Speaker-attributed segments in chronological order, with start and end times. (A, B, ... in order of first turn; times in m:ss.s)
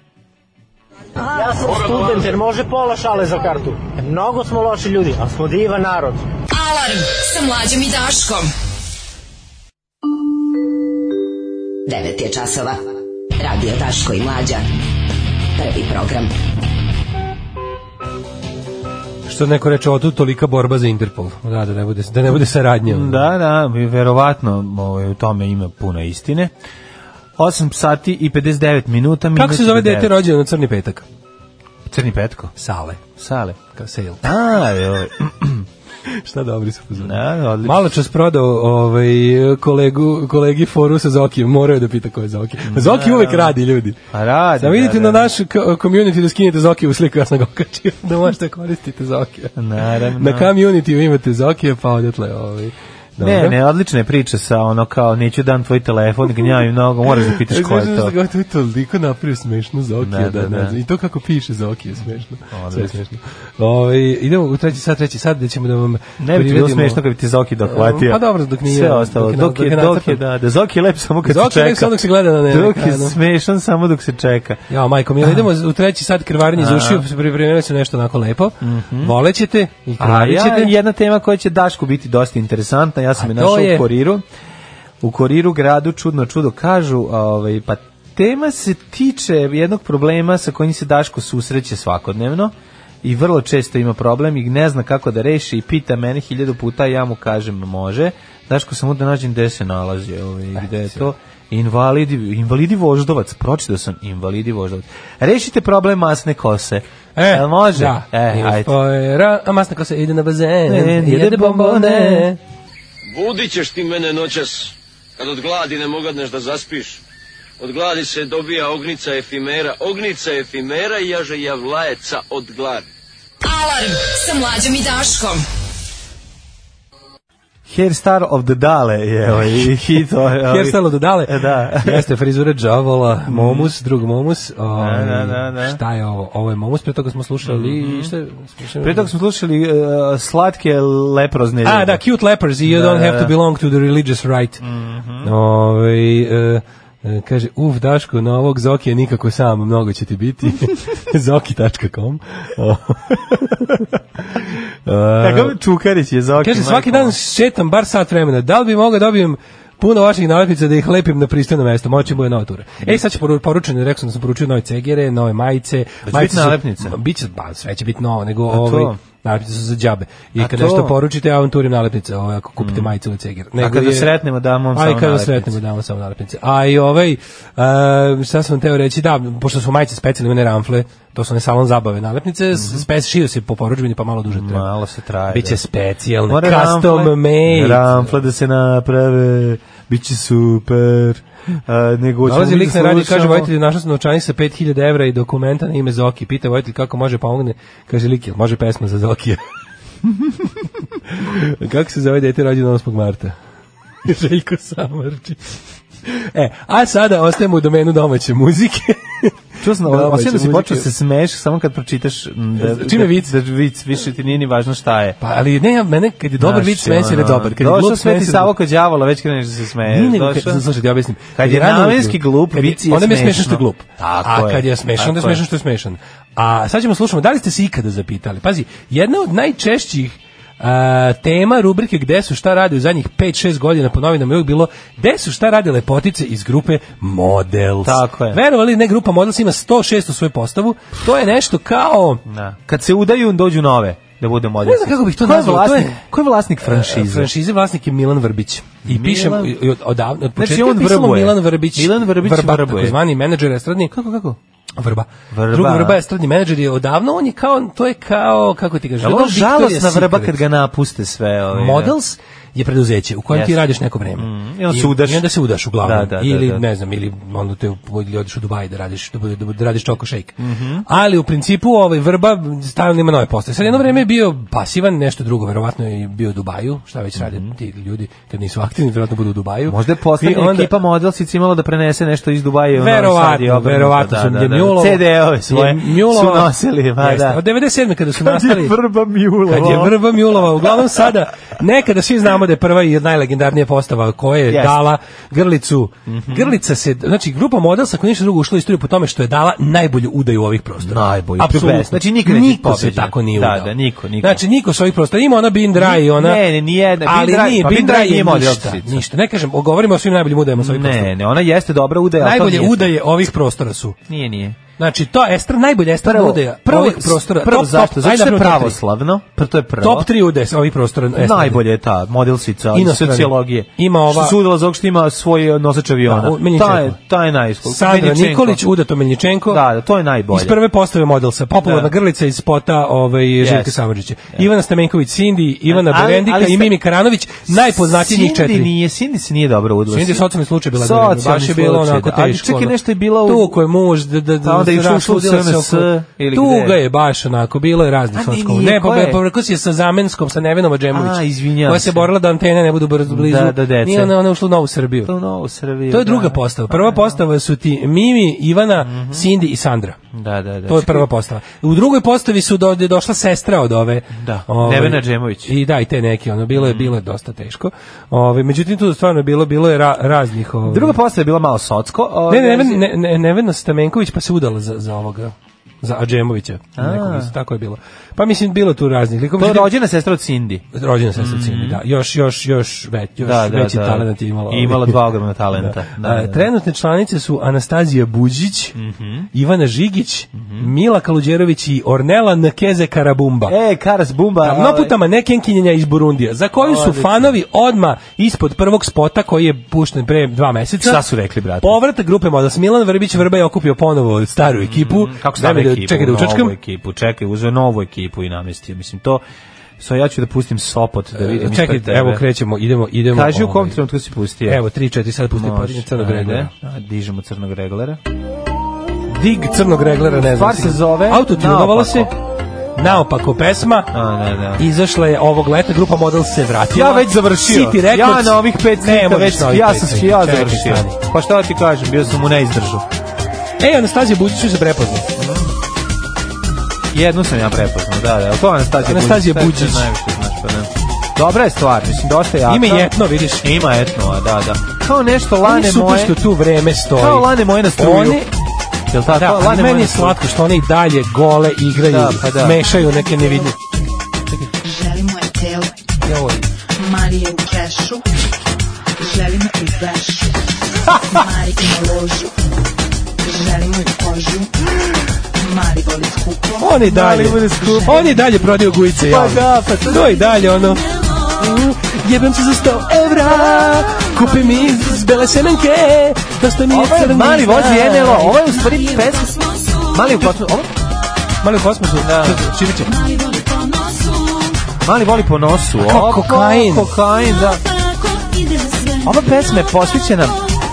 0:01.2-0:06.2 A
0:06.5-0:08.5 B
0:11.9-0:12.8 C
0:13.4-0:14.6 C
0:15.6-0:16.3 C
0:19.2-0:23.2 D
0:22.8-0:26.5 E
0:27.4-0:30.1 E
0:29.3-0:31.0 D
0:31.9-0:32.5 E
0:32.6-0:33.0 D
0:33.1-0:33.6 E
0:33.7-0:34.2 D
0:34.2-0:35.7 E
0:36.1-0:44.0 D
0:37.0-0:37.9 E
0:42.6-0:43.6 E
0:44.1-0:45.3 E
0:44.6-0:49.5 D
0:49.6-0:50.5 E
0:50.2-0:53.6 D
0:53.2-0:58.1 E
0:57.2-1:07.0 D
1:00.0-1:00.8 E
1:02.5-1:03.0 E
1:06.2-1:14.6 E
1:07.6-1:10.2 D
1:11.2-1:13.2 D
1:14.7-1:20.7 D
1:16.6-1:17.0 E
1:18.6-1:19.1 E
1:20.0-1:24.2 E
1:23.2-1:23.8 D
1:25.0-1:48.7 E
1:47.2-1:52.4 D
1:50.6-1:52.3 E
1:53.2-1:54.6 F
1:55.2-1:57.0 F
1:57.6-2:02.8 F
2:03.4-2:05.4 B
2:07.7-2:12.1 E
2:10.5-2:19.1 D
2:13.3-2:13.7 E
2:14.8-2:15.8 E
2:17.4-2:18.1 E
2:18.8-2:22.0 E
2:21.6-2:24.6 D
2:22.6-2:23.3 E
2:24.6-2:25.3 E
2:25.2-2:35.6 D
2:35.2-2:37.2 E
2:36.4-2:54.1 D
2:46.0-2:47.0 E
2:48.5-2:49.0 E
2:50.4-2:51.0 E
2:52.6-2:52.9 E
2:53.6-2:55.6 E
2:54.7-3:04.6 D
3:02.5-3:02.8 E
3:04.3-3:05.6 E
3:05.3-3:08.2 D
3:06.3-3:13.5 E
3:12.2-3:19.4 D
3:21.1-3:23.3 D
3:24.0-3:25.5 D
3:26.0-3:30.9 D
3:29.6-3:35.2 E
3:32.6-3:33.3 D
3:35.2-3:38.5 D
3:36.4-3:40.6 E
3:39.8-4:02.2 D
3:41.4-3:45.4 E
3:57.8-3:58.4 E
4:02.3-4:07.3 E
4:04.6-4:06.0 D
4:06.6-4:13.9 D
4:08.8-4:09.5 E
4:10.4-4:13.0 E
4:13.9-4:14.4 E
4:14.8-4:20.4 D
4:15.3-4:16.0 E
4:19.0-4:21.9 E
4:21.5-4:40.7 D
4:23.3-4:25.3 E
4:25.8-4:26.6 E
4:30.4-4:30.8 E
4:37.2-4:37.5 E
4:39.7-4:47.4 E
4:42.7-4:48.8 D
4:48.2-4:51.0 E
4:49.5-5:06.4 D
4:54.5-4:54.8 E
4:56.1-4:56.5 E
5:00.8-5:04.4 E
5:05.7-5:09.0 E
5:07.0-5:11.1 D
5:10.6-5:12.9 E
5:12.2-5:14.0 D
5:14.1-5:14.6 E
5:14.8-5:18.8 D
5:16.0-5:20.1 E
5:19.8-5:21.6 D
5:21.2-5:28.6 E
5:22.7-5:24.4 D
5:26.1-5:27.0 D
5:27.6-5:29.6 D
5:29.5-5:30.6 E
5:30.3-5:38.7 D
5:31.6-5:31.9 E
5:33.4-5:33.8 E
5:35.7-5:36.7 E
5:37.5-5:43.6 E
5:39.9-5:55.1 D
5:44.4-5:46.8 E
5:48.1-5:49.2 E
5:50.9-5:52.1 E
5:53.1-5:54.1 E
5:55.0-5:57.2 E
5:55.9-6:00.0 D
5:58.8-5:59.3 E
6:00.1-6:01.1 E
6:00.7-6:10.9 D
6:04.1-6:05.5 E
6:06.5-6:06.9 E
6:10.6-6:12.8 E
6:12.3-6:19.7 D
6:16.8-6:17.3 E
6:19.4-6:21.8 E
6:20.7-6:25.0 D
6:23.2-6:26.5 E
6:25.6-6:28.8 D
6:28.8-6:29.3 E
6:29.3-6:33.5 D
6:30.4-6:30.7 E
6:33.5-6:35.0 E
6:34.4-6:41.0 D
6:36.6-6:37.4 E
6:40.8-6:41.8 E
6:41.6-6:46.5 D
6:44.6-6:49.2 E
6:49.8-6:52.2 E
6:51.2-6:53.8 D
6:53.1-6:54.6 E
6:54.5-6:56.5 D
6:55.3-6:58.0 E
6:59.1-7:02.1 D
7:00.1-7:02.1 E
7:02.8-7:03.9 D
7:03.9-7:04.6 E
7:04.6-7:11.0 D
7:06.7-7:12.8 E
7:13.6-7:15.1 D
7:15.2-7:15.5 E
7:16.9-7:26.2 E
7:18.8-7:19.9 D
7:22.5-7:23.4 D
7:25.4-7:28.3 D
7:26.9-7:28.3 E
7:28.9-7:30.2 E
7:29.0-7:33.6 D
7:31.8-7:32.6 E
7:34.6-7:35.7 G
7:36.0-7:36.4 D
7:36.8-7:38.0 G
7:39.0-7:40.4 G
7:41.0-7:42.3 G
7:43.2-7:44.5 G
7:45.4-7:46.6 G
7:46.6-7:58.4 D
7:46.8-7:48.2 E
7:49.0-7:50.1 E
7:56.7-8:00.7 E
8:01.4-8:03.0 D
8:02.0-8:02.4 E
8:04.8-8:07.6 E
8:05.8-8:06.9 D
8:09.0-8:10.4 E